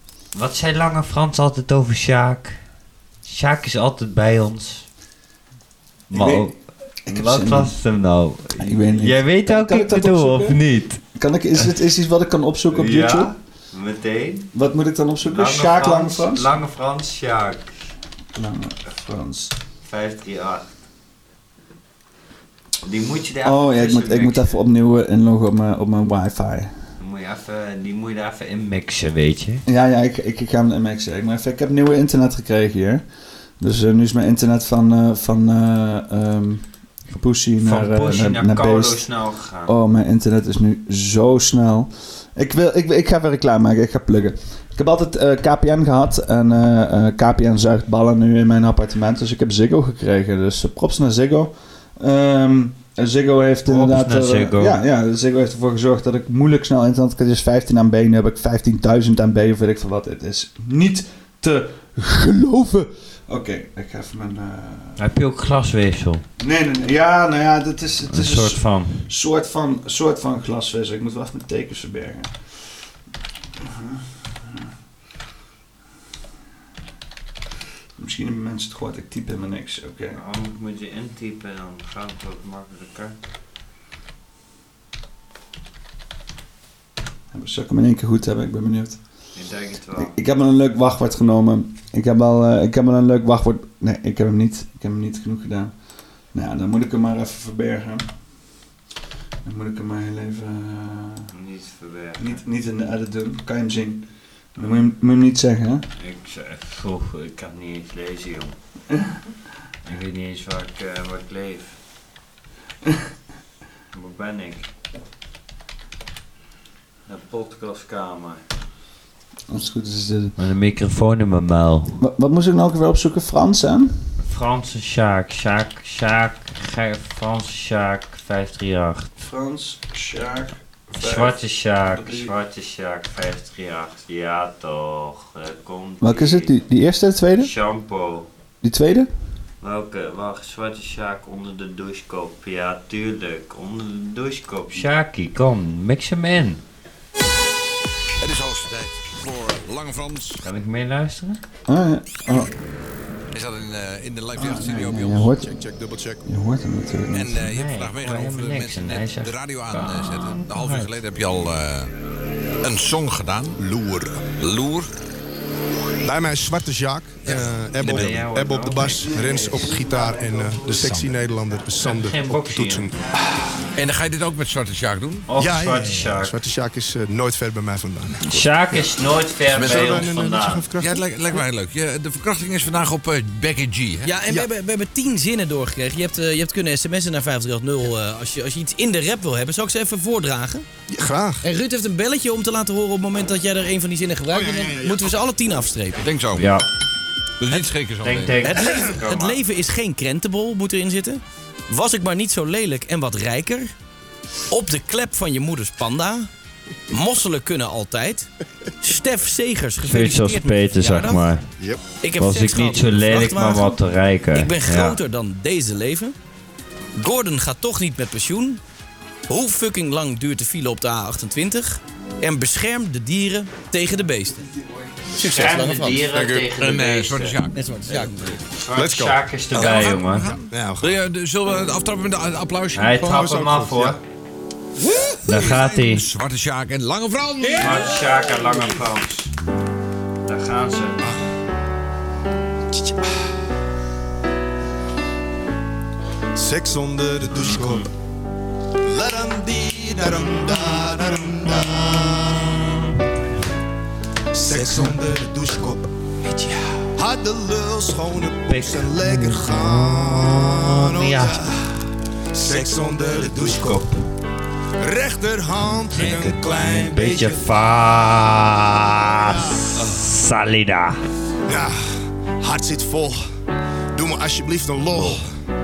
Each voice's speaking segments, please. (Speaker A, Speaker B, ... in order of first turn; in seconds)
Speaker A: 0.3-2.6, 3.2-4.9, 6.1-6.5, 7.1-11.0, 12.7-14.5, 15.2-17.7, 19.8-20.7, 22.8-24.6, 27.0-29.6, 37.6-39.7, 53.7-54.8, 65.0-66.2, 68.1-69.1, 80.1-83.1, 89.3-90.1, 101.3-102.4, 106.0-108.5, 109.8-111.8, 113.9-114.7, 117.1-118.4, 120.4-122.0, 124.2-129.2, 130.9-136.6, 137.4-138.3, 139.6-146.6, 150.4-151.4, 157.4-160.9, 167.8-169.5, 171.8-172.9, 175.3-176.3, 178.2-180.7, 196.4-196.6, 198.0-199.4, 209.8-211.4, 212.2-215.0, 225.2-227.4, 227.9-230.3, 232.7-234.0, 235.2-236.0, 237.5-239.3, 240.2-241.1, 247.4-247.9, 252.3-253.0, 258.5-261.5, 262.8-264.0, 265.9-271.0, 274.9-275.2
Speaker B: 6.1-6.5, 7.0-7.7, 8.6-10.6, 11.1-13.3, 14.5-16.5, 18.4-19.5, 23.4-26.7, 29.6-33.0, 33.6-39.0, 39.7-65.0, 66.4-72.4, 73.5-74.7, 78.0-80.2, 87.3-89.0, 90.0-95.7, 96.3-98.1, 99.4-101.3, 102.2-105.9, 108.9-109.2, 119.5-120.4, 122.0-124.0, 129.2-131.4, 131.9-132.3, 136.0-137.5, 138.6-139.1, 151.7-152.5, 154.4-155.5, 156.2-157.5, 169.1-171.0
Speaker C: 148.2-150.4, 153.3-155.3, 157.1-161.9, 162.6-163.6, 164.4-164.9, 167.3-168.1, 170.8-171.1, 173.7-175.3, 179.5-180.1, 180.8-184.2, 194.3-195.1, 196.0-196.5, 197.4-198.5, 225.2-228.9, 229.5-233.7, 234.8-238.5
Speaker D: 155.3-156.2, 163.6-164.3, 166.0-173.0, 175.4-178.8, 179.5-181.0, 190.9-191.4, 228.8-229.1, 230.5-230.9, 233.1-234.0, 246.3-247.9, 248.8-252.9, 254.3-261.8, 262.3-263.9, 264.8-267.6, 269.0-269.9, 271.4-273.2, 273.9-275.3
Speaker E: 184.0-190.7, 191.4-196.0, 198.4-203.7, 204.5-206.3, 206.9-208.3, 208.8-211.3, 212.0-213.8, 214.3-216.1, 216.9-218.6, 219.3-224.5, 225.1-226.0, 227.5-228.4